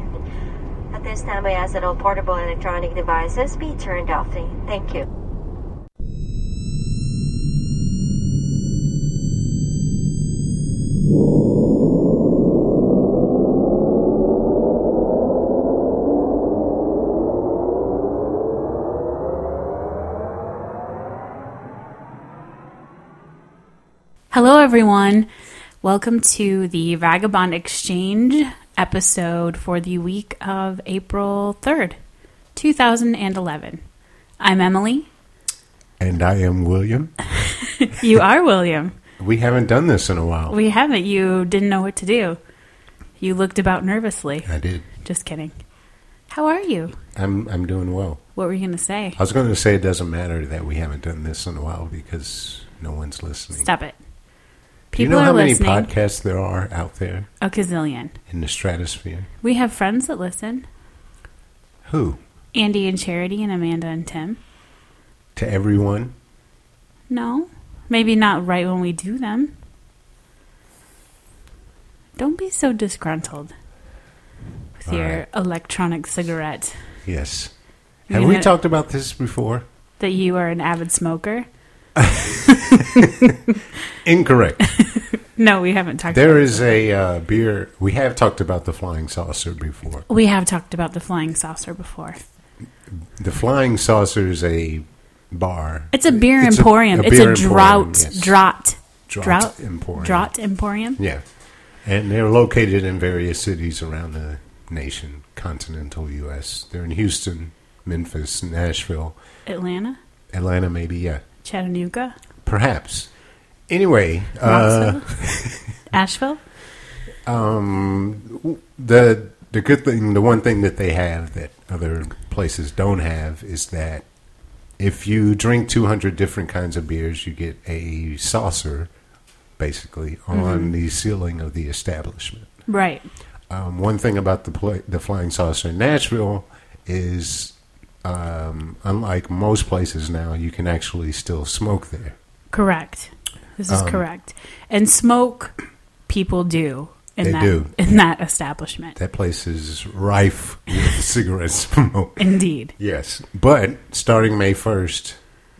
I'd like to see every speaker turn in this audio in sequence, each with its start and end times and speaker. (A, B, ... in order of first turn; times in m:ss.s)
0:00.9-0:05.0 A
0:24.3-0:25.3 B
0:25.8-0:32.0 B
0:32.5-0:33.8 B
0:34.4-0:35.1 B
0:36.0-0:37.2 C
0:37.8-0:39.0 B
0:39.2-0:40.6 C
0:40.5-0:42.4 B
0:43.2-0:44.5 B
0:44.4-0:44.9 C
0:45.0-0:45.5 B
0:46.3-0:47.0 B
0:47.1-0:48.2 C
0:48.4-0:49.2 B
0:49.2-0:53.7 C
0:53.6-0:54.0 B
0:54.9-0:55.9 B
0:54.9-0:57.3 C
0:57.4-0:58.2 B
0:58.3-0:59.3 C
0:59.4-1:00.6 B
1:01.8-1:02.2 C
1:02.5-1:04.4 B
1:05.3-1:06.1 C
1:07.1-1:09.5 B
1:12.2-1:13.5 B
1:14.8-1:16.8 B
1:14.8-1:15.2 C
1:17.0-1:17.5 C
1:18.1-1:19.6 C
1:18.1-1:18.5 B
1:20.0-1:21.4 B
1:22.0-1:22.4 C
1:22.5-1:23.6 B
1:24.0-1:24.8 C
1:24.8-1:26.8 B
1:26.1-1:30.1 C
1:30.1-1:32.2 B
1:32.9-1:38.4 C
1:35.9-1:41.0 B
1:39.1-1:40.3 C
1:41.0-1:41.2 C
1:41.8-1:49.2 C
1:49.4-1:50.0 B
1:50.3-1:51.2 C
1:51.4-1:52.1 B
1:52.4-1:53.1 C
1:53.7-1:55.7 C
1:54.4-1:55.2 B
1:55.9-1:56.4 B
1:57.2-2:04.0 C
2:04.8-2:08.9 C
2:09.6-2:12.5 C
2:10.3-2:10.7 B
2:12.7-2:13.0 B
2:13.5-2:22.2 C
2:22.5-2:25.5 B
2:23.7-2:24.0 C
2:26.1-2:29.0 B
2:27.2-2:27.7 C
2:29.0-2:35.2 C
2:32.2-2:32.7 B